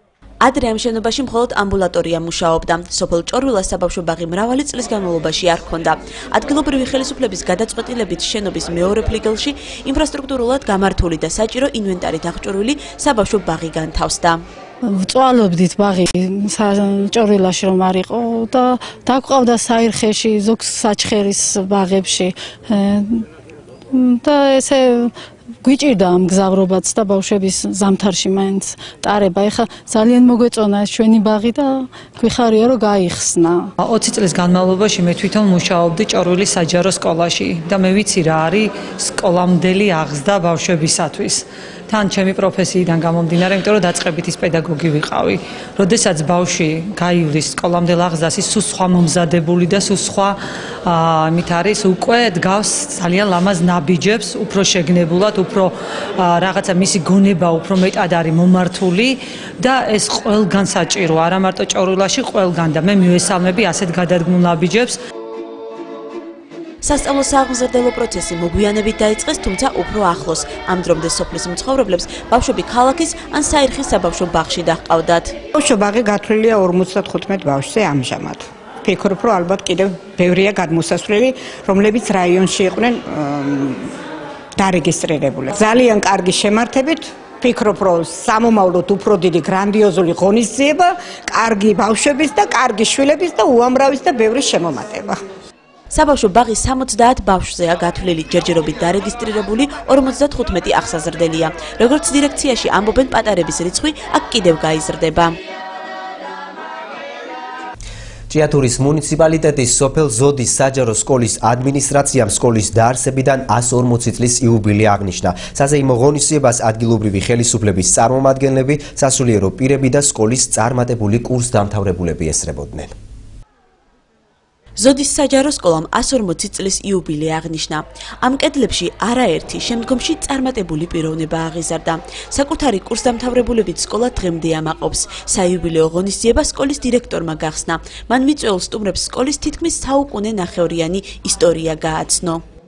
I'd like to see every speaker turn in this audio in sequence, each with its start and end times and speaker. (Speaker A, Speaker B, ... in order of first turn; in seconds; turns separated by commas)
Speaker A: 0.4-14.4, Speaker B: 14.9-23.2, Speaker B: 23.9-25.1, Speaker B: 25.6-33.7, Speaker C: 33.8-65.0, Speaker A: 66.8-75.3, Speaker D: 75.5-83.8, Speaker D: 84.6-95.2, Speaker A: 95.9-105.4, Speaker E: 108.3-122.9, Speaker A: 124.8-142.4